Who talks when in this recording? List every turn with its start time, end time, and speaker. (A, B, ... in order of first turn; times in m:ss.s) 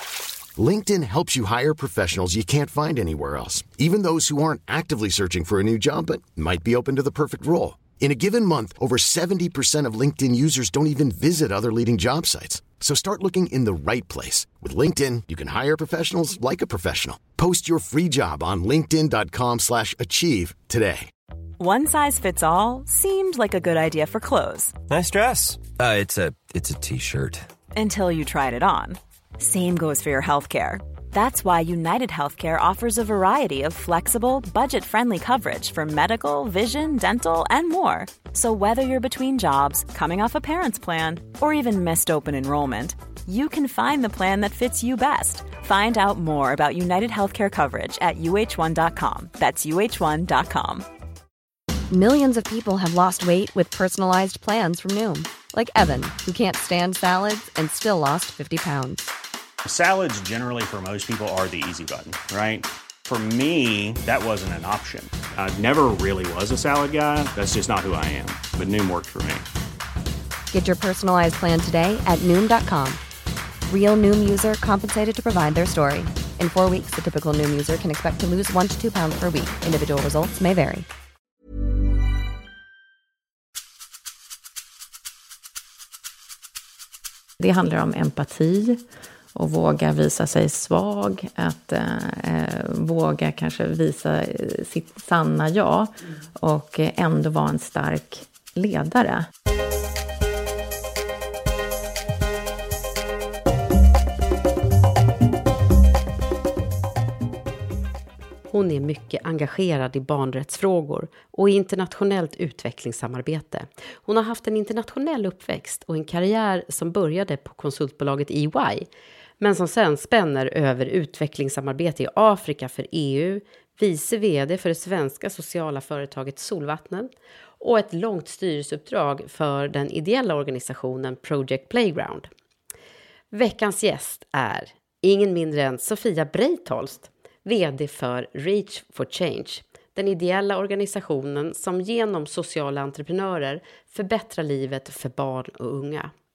0:00.6-0:21.1 A
0:21.6-0:24.8 B
0:24.9-0:27.4 C
0:27.7-0:50.8 B
0:51.9-0:59.1 D
0:59.6-1:09.4 E
1:10.5-1:13.0 D
1:13.7-1:20.9 D
1:27.4-1:28.8 F
1:29.3-1:39.3 F
1:48.5-1:58.9 G
1:59.4-2:07.1 G
2:07.6-2:12.3 G
2:13.3-2:26.1 G